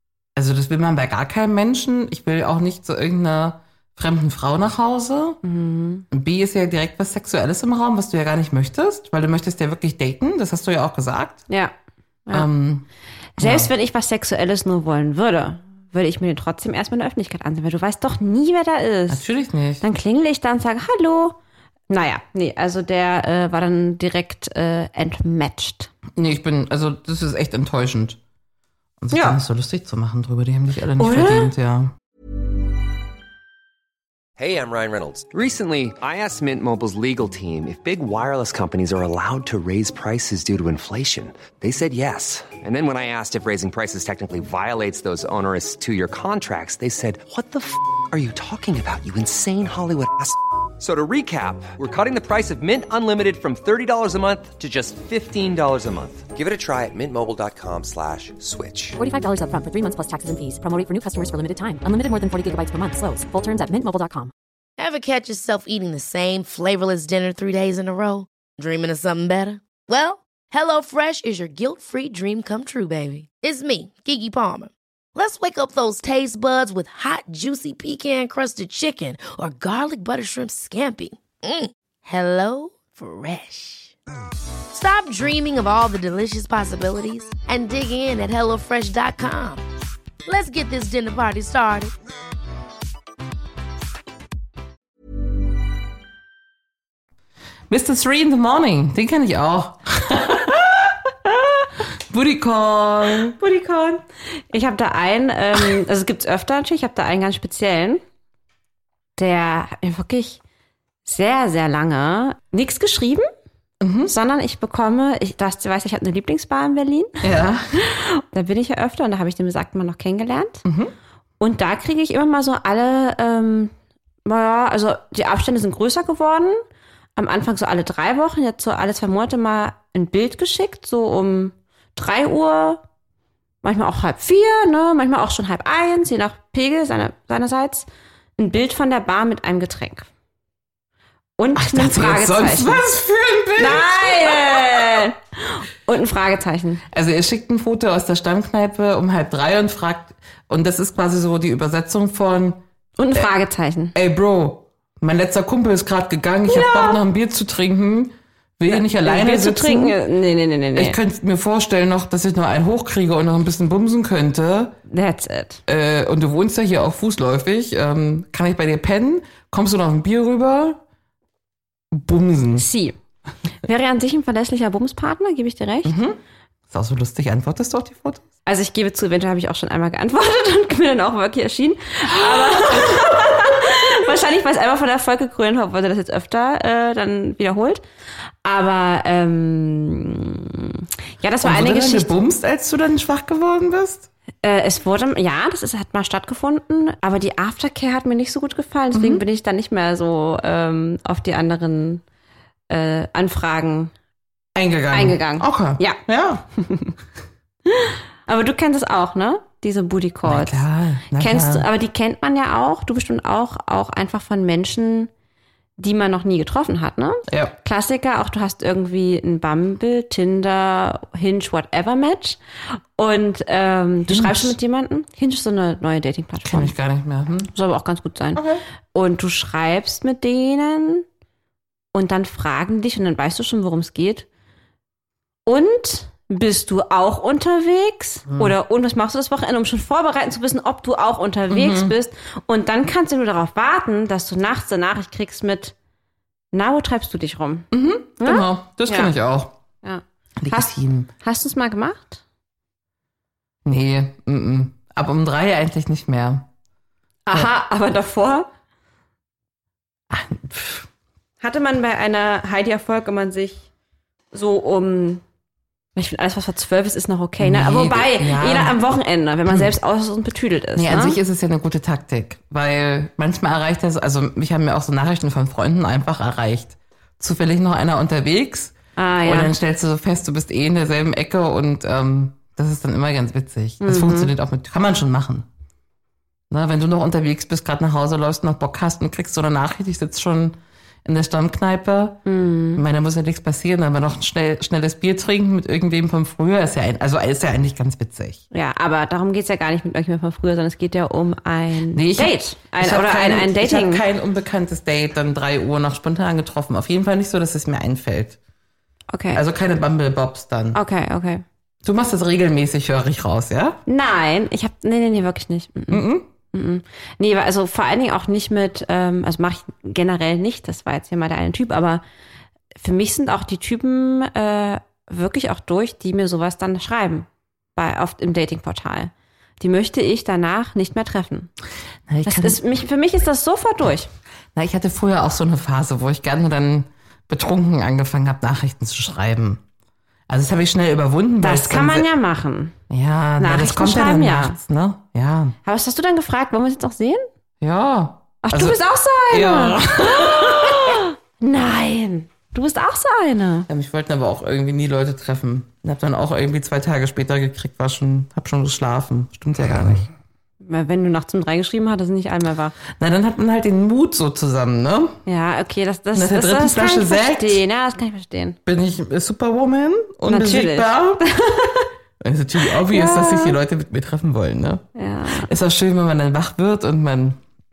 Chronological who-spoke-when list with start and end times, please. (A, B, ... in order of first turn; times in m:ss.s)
0:00.4-0:05.4 A
0:05.4-0:06.1 B
0:06.1-0:11.4 A
0:12.3-0:12.9 A
0:13.4-0:19.2 B
0:13.4-0:13.7 A
0:19.1-0:19.8 A
0:19.8-0:21.4 B
0:21.9-0:25.9 B
0:26.2-0:28.2 A
0:29.0-0:31.9 A
0:29.1-0:29.4 B
0:31.0-0:31.5 B
0:34.4-0:59.0 C
0:59.0-1:04.3 D
1:04.8-1:23.9 E
1:24.7-1:29.6 E
1:30.3-1:31.9 E
1:37.7-1:41.0 A
1:42.1-1:43.4 A
1:43.4-1:48.0 B
1:49.2-1:50.4 B
1:51.1-1:53.3 B
1:53.8-1:54.1 A
1:54.1-1:57.2 B
1:57.2-1:57.7 A
1:57.8-2:00.6 B
2:00.6-2:00.9 A
2:01.4-2:03.7 B
2:04.2-2:06.6 B
2:07.2-2:12.8 B
2:13.6-2:17.9 B
2:18.4-2:20.1 B
2:21.4-2:22.9 B
2:21.6-2:25.0 A
2:23.6-2:26.8 B
2:26.9-2:32.6 A
2:33.0-2:33.9 B
2:33.9-2:40.0 A
2:36.5-2:37.0 B
2:38.7-2:41.0 B
2:40.8-2:44.8 A
2:44.9-2:45.6 B
2:45.7-2:50.8 A
2:51.9-2:52.6 A
2:52.6-2:53.0 B
2:53.6-2:56.0 B
2:55.8-2:56.2 A
2:56.7-2:58.2 A
2:58.5-3:07.8 B
3:02.2-3:03.5 A
3:08.4-3:12.1 B
3:11.4-3:14.1 A
3:14.4-3:22.0 B
3:18.9-3:19.2 A
3:22.7-3:23.9 B
3:24.6-3:26.4 A
3:24.9-3:26.0 B
3:26.6-3:26.9 B
3:27.7-3:35.1 B
3:30.3-3:31.7 A
3:35.8-3:42.4 B
3:37.3-3:37.6 A
3:43.0-3:46.7 B
3:44.1-3:44.6 A
3:46.4-3:47.5 A
3:47.5-3:51.0 B
3:48.4-3:48.6 A
3:51.9-3:54.3 B
3:55.5-4:05.8 B
3:58.3-3:58.6 A
4:01.5-4:01.9 A
4:06.5-4:09.1 B
4:07.7-4:09.5 A
4:09.8-4:12.2 B
4:10.4-4:11.1 A
4:13.6-4:16.5 A
4:17.3-4:18.5 B
4:20.1-4:20.9 A
4:21.4-4:23.6 B
4:24.3-4:25.2 B
4:26.0-4:31.2 B
4:27.4-4:28.8 A
4:30.8-4:45.5 A
4:39.0-4:39.5 B
4:43.8-4:44.3 B
4:46.5-4:52.2 A
4:52.2-4:52.8 B
4:52.8-4:58.4 A
4:58.5-5:04.0 B
5:01.9-5:08.4 A
5:09.1-5:09.4 B
5:09.3-5:10.8 A
5:10.7-5:11.4 B
5:11.8-5:13.8 A
5:13.9-5:22.0 B
5:15.9-5:16.3 A
5:22.8-5:31.5 B
5:32.1-5:32.6 A
5:32.2-5:34.1 B
5:34.6-5:39.6 A
5:40.3-5:42.1 A
5:41.4-5:42.8 B
5:42.9-5:45.6 A
5:43.4-5:44.6 B
5:45.6-5:47.3 B
5:47.6-5:51.0 A
5:48.4-5:53.7 B
5:53.7-6:00.1 A
6:00.6-6:02.7 B
6:03.0-6:05.2 A
6:05.3-6:08.6 B
6:06.1-6:07.6 A
6:08.7-6:11.3 A
6:10.3-6:11.9 B
6:12.2-6:14.8 A
6:12.6-6:13.6 B
6:15.0-6:15.5 B
6:15.4-6:17.4 A